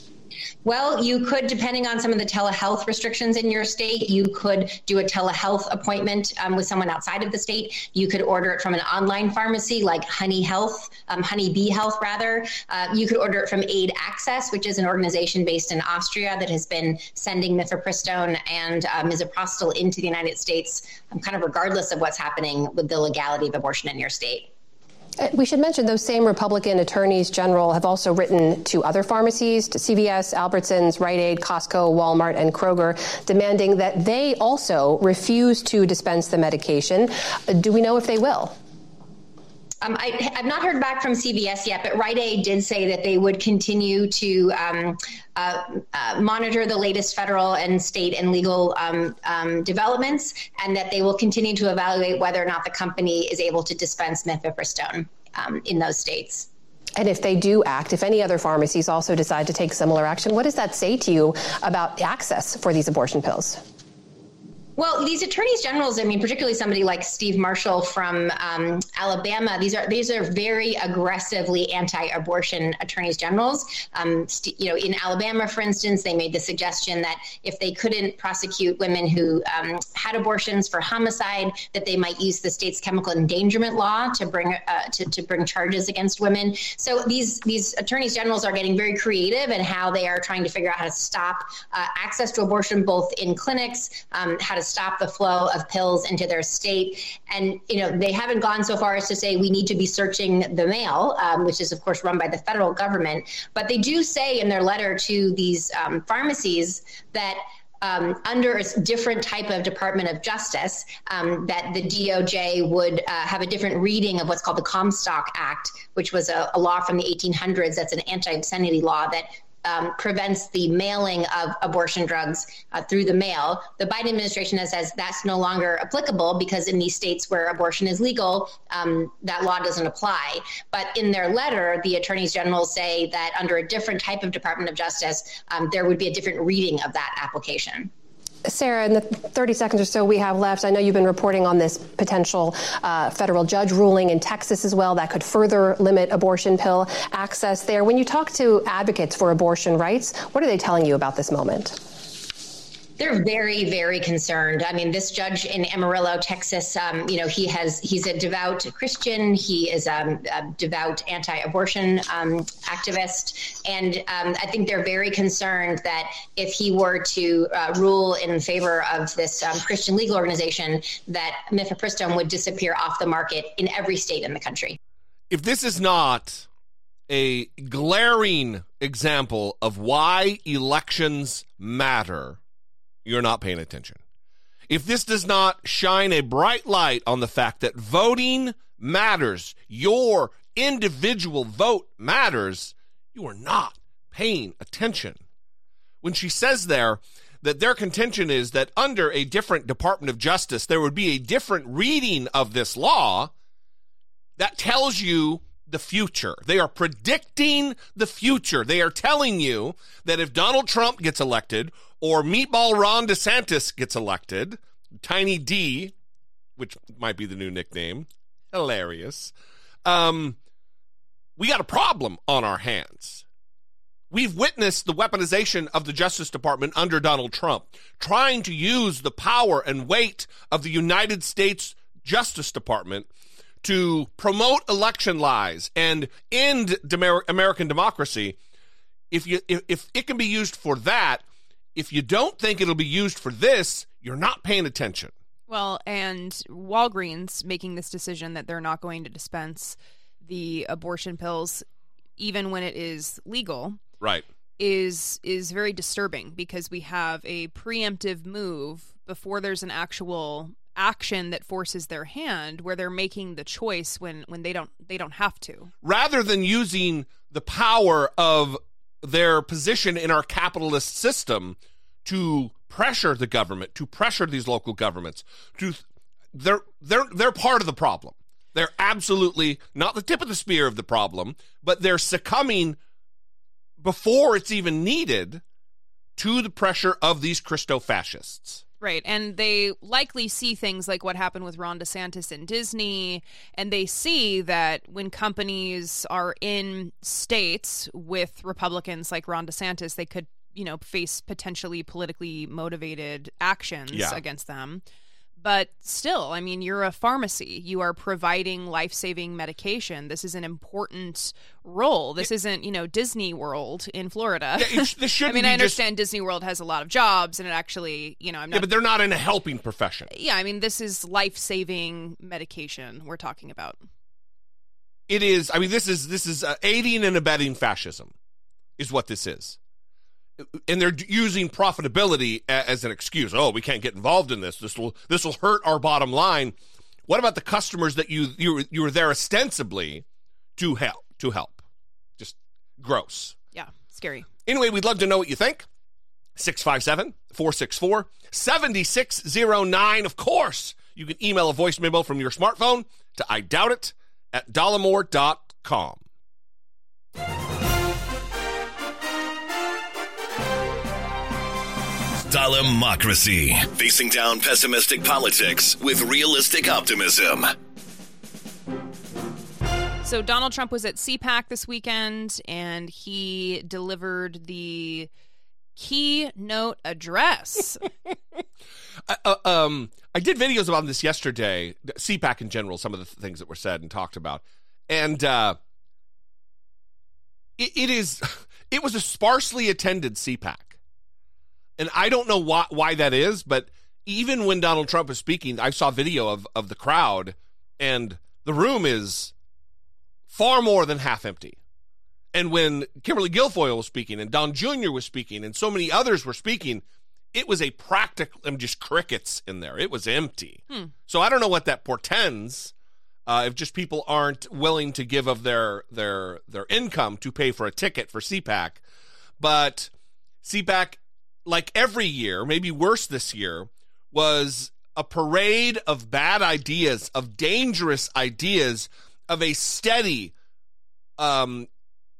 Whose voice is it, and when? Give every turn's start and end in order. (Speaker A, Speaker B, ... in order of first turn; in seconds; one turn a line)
Speaker A: 0.6-24.5
Speaker B: 25.2-38.6
Speaker A: 39.8-56.5
Speaker B: 57.0-63.6
Speaker A: 64.8-137.9
Speaker B: 138.4-151.8
Speaker A: 153.0-174.8
Speaker C: 175.3-176.4
Speaker C: 177.1-182.4
Speaker C: 183.0-184.0
Speaker C: 184.7-195.2
Speaker C: 196.0-203.3
Speaker C: 204.4-215.9
Speaker C: 216.6-219.3
Speaker C: 219.8-220.3
Speaker C: 221.4-223.2
Speaker C: 224.1-233.1
Speaker C: 233.6-238.3
Speaker C: 239.1-241.2
Speaker C: 241.7-245.1
Speaker D: 245.5-251.6
Speaker D: 252.2-253.8
Speaker D: 254.6-265.7
Speaker C: 265.8-275.8
Speaker C: 276.3-282.8
Speaker C: 283.8-285.4
Speaker C: 286.2-288.6
Speaker D: 288.8-304.8
Speaker C: 303.9-304.2
Speaker D: 305.4-318.7
Speaker C: 314.6-315.8
Speaker C: 318.5-320.1
Speaker D: 320.1-323.8
Speaker C: 325.1-328.1
Speaker C: 328.8-329.6
Speaker C: 330.4-336.5
Speaker C: 337.1-340.0
Speaker C: 340.6-341.6
Speaker C: 342.2-343.4
Speaker D: 343.5-344.3
Speaker C: 344.4-345.6
Speaker C: 346.4-356.0
Speaker E: 362.3-367.5
Speaker D: 370.0-375.1
Speaker D: 375.8-377.8
Speaker C: 379.1-385.6
Speaker C: 387.6-390.8
Speaker C: 391.8-399.3
Speaker C: 400.3-401.6
Speaker C: 402.3-412.7
Speaker C: 413.3-418.8
Speaker C: 419.4-419.9
Speaker C: 420.4-430.3
Speaker C: 431.2-431.7